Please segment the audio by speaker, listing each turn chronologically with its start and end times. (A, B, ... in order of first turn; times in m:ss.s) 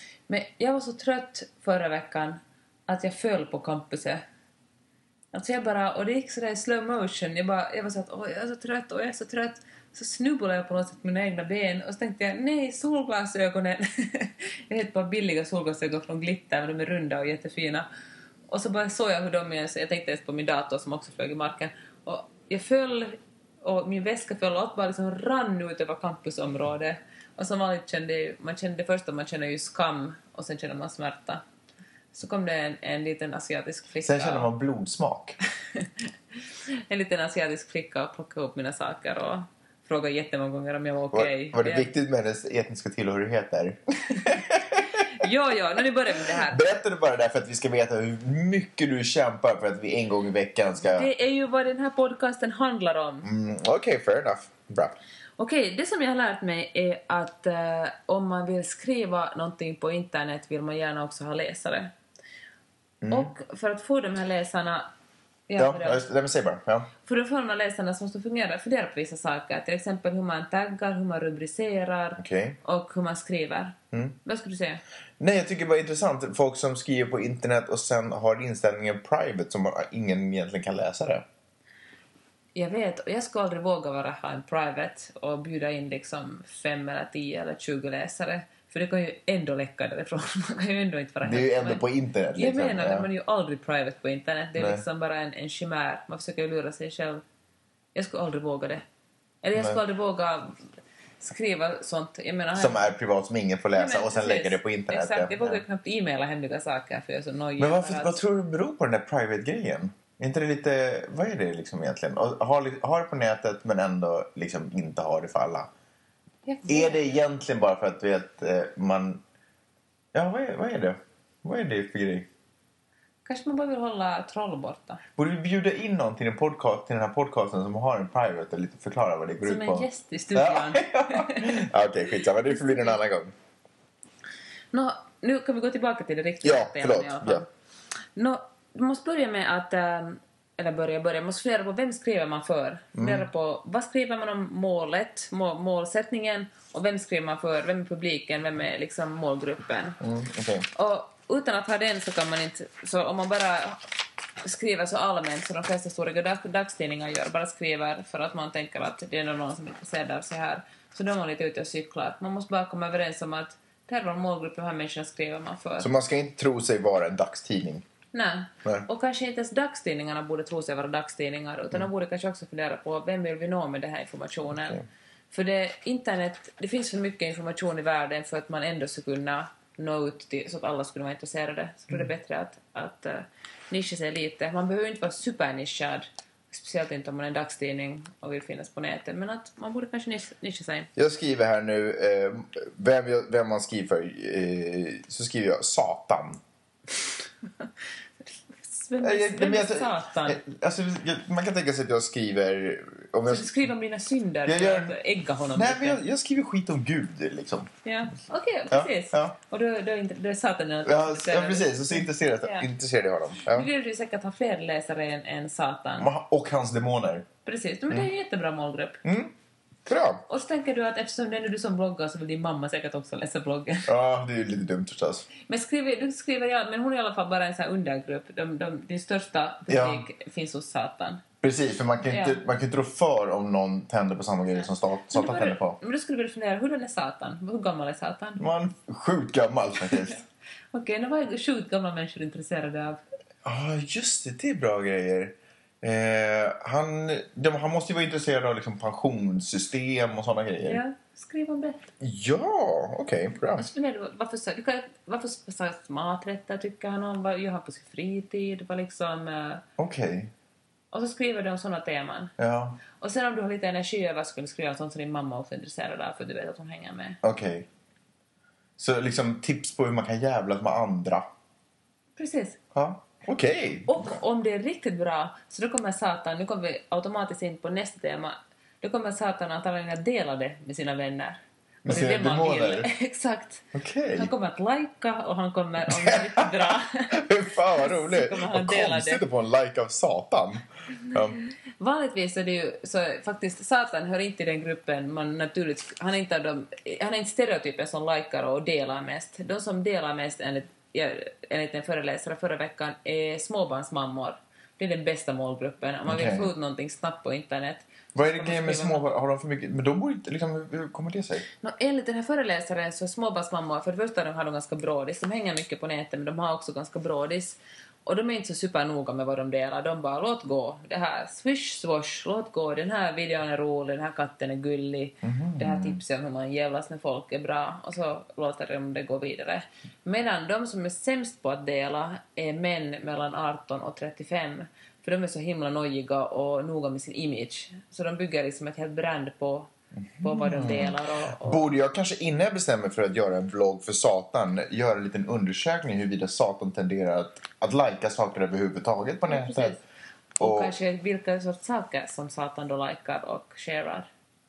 0:00.3-0:04.2 A
0:05.3-0:17.9 A
0:18.5-0:31.4 A
0:32.1-0:34.5 A
0:34.0-0:35.4 B
0:36.9-0:41.9 A
0:41.1-0:45.0 B
0:44.9-0:46.8 A
0:46.3-0:51.1 B
0:50.8-0:53.3 A
0:53.2-0:55.0 B
0:55.4-1:01.9 A
1:03.0-1:03.3 B
1:03.1-1:04.9 A
1:05.5-1:06.1 A
1:05.6-1:06.9 B
1:07.0-1:14.8 A
1:12.2-1:12.6 B
1:13.9-1:14.2 B
1:15.2-1:21.2 B
1:22.6-1:31.8 A
1:31.2-1:33.1 B
1:32.4-1:37.2 A
1:34.6-1:34.8 B
1:37.9-1:38.8 A
1:39.4-1:40.6 A
1:39.6-1:39.8 B
1:41.2-1:42.9 A
1:42.6-1:45.6 B
1:43.7-1:48.2 A
1:47.6-1:55.7 B
1:56.5-1:57.1 A
1:56.7-1:59.2 B
2:00.1-2:02.3 B
2:03.3-2:05.0 A
2:05.2-2:13.3 B
2:09.4-2:11.6 A
2:12.5-2:13.0 A
2:14.7-2:17.5 A
2:16.4-2:17.4 B
2:18.2-2:30.0 A
2:23.0-2:23.3 B
2:30.0-2:30.7 B
2:30.7-2:33.8 A
2:34.4-2:45.9 A
2:45.8-2:47.9 B
2:48.1-2:54.8 A
2:54.6-2:54.9 B
2:55.3-3:10.9 A
3:11.0-3:16.4 B
3:18.5-3:20.4 A
3:19.0-3:23.6 B
3:23.3-3:26.0 A
3:24.5-3:25.0 B
3:25.5-3:27.7 B
3:27.8-3:32.7 A
3:28.7-3:29.4 B
3:30.9-3:33.7 B
3:33.5-3:36.1 A
3:36.0-3:37.3 B
3:37.4-3:39.0 A
3:39.0-3:39.3 B
3:39.9-3:40.2 B
3:40.3-3:43.9 A
3:43.9-3:45.3 B
3:45.5-3:51.2 A
3:49.7-3:50.1 B
3:51.4-3:55.8 B
3:52.1-3:52.4 A
3:55.1-3:58.4 A
3:58.4-4:00.2 B
4:00.7-4:03.0 A
4:03.4-4:10.8 B
4:10.6-4:11.9 A
4:12.0-4:13.7 B
4:13.6-4:19.6 A
4:19.8-4:20.3 B
4:20.9-4:22.3 A
4:22.4-4:22.8 B
4:23.0-4:27.2 A
4:27.2-4:27.7 B
4:28.8-4:31.3 B
4:32.2-4:32.6 A
4:32.8-4:34.2 B
4:33.9-4:49.2 A
4:41.8-4:42.9 B
4:43.7-4:44.3 B
4:45.9-4:51.4 B
4:51.8-5:09.1 A
5:06.1-5:06.5 B
5:08.2-5:11.5 B
5:11.6-5:39.7 A
5:25.2-5:26.0 B
5:40.1-5:49.8 B
5:40.2-5:41.6 A
5:49.3-5:49.8 A
5:50.4-5:50.8 B
5:50.4-5:54.1 A